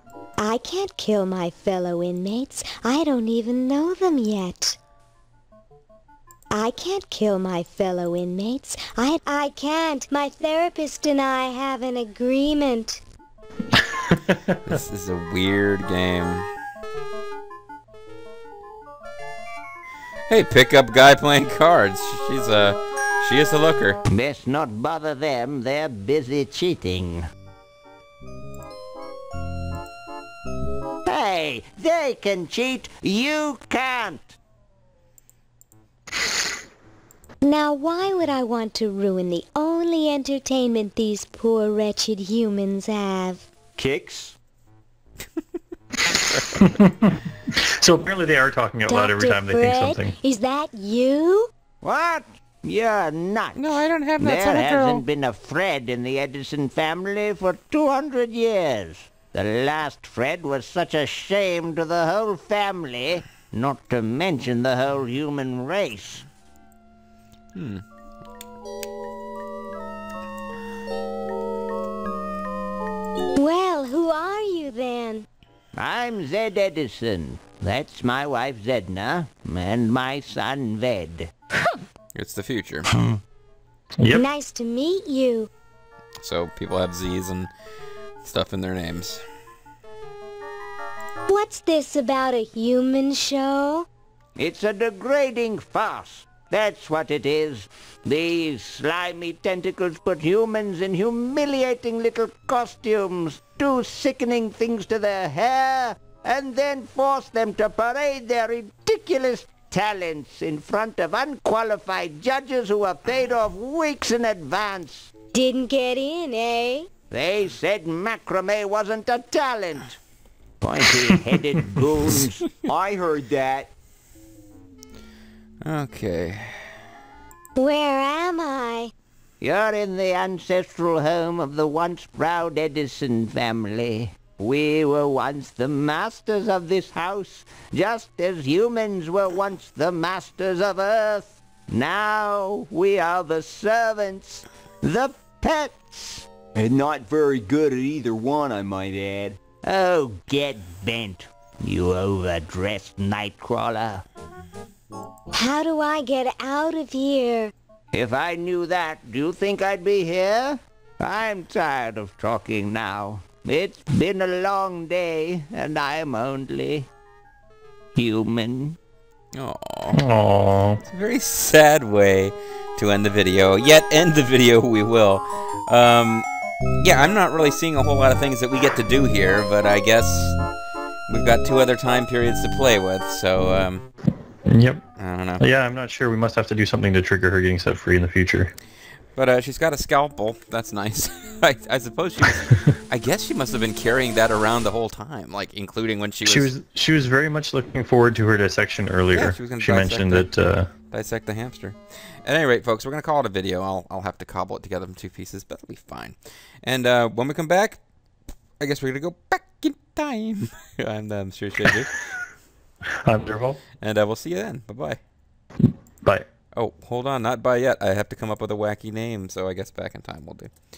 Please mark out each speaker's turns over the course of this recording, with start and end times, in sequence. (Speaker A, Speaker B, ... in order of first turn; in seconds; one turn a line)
Speaker A: 0.4-4.8
Speaker A: 6.5-13.0
Speaker B: 13.8-14.6
Speaker C: 14.7-16.5
Speaker C: 20.3-24.0
Speaker D: 24.1-27.3
Speaker D: 31.1-34.4
Speaker A: 37.4-43.5
Speaker D: 43.8-44.4
Speaker B: 46.1-50.1
Speaker A: 48.9-51.5
Speaker D: 51.8-66.3
Speaker C: 53.5-55.0
Speaker C: 67.5-67.8
Speaker A: 73.3-75.3
Speaker D: 75.8-81.3
Speaker C: 82.2-82.9
Speaker B: 82.9-83.2
Speaker B: 84.0-84.2
Speaker A: 84.1-85.5
Speaker C: 86.2-87.5
Speaker C: 88.2-89.2
Speaker A: 91.3-93.9
Speaker D: 94.4-115.1
Speaker A: 115.3-116.9
Speaker D: 117.1-120.0
Speaker D: 120.6-122.7
Speaker E: 122.6-123.7
Speaker C: 125.6-126.7
Speaker A: 127.6-128.9
Speaker D: 129.4-146.3
Speaker E: 146.6-149.4
Speaker D: 149.6-154.0
Speaker A: 155.3-157.5
Speaker D: 157.9-166.9
Speaker D: 167.9-168.8
Speaker C: 169.3-170.0
Speaker B: 169.9-170.8
Speaker C: 170.8-176.3
Speaker C: 176.8-180.4
Speaker C: 181.1-183.9
Speaker B: 184.5-184.8
Speaker C: 185.0-185.4
Speaker B: 185.4-188.5
Speaker C: 189.2-196.5
Speaker B: 192.4-192.7
Speaker B: 196.2-200.7
Speaker C: 199.1-200.3
Speaker C: 200.9-207.8
Speaker C: 208.6-211.9
Speaker B: 212.9-213.6
Speaker C: 213.8-215.0
Speaker B: 215.6-216.3
Speaker C: 216.6-220.5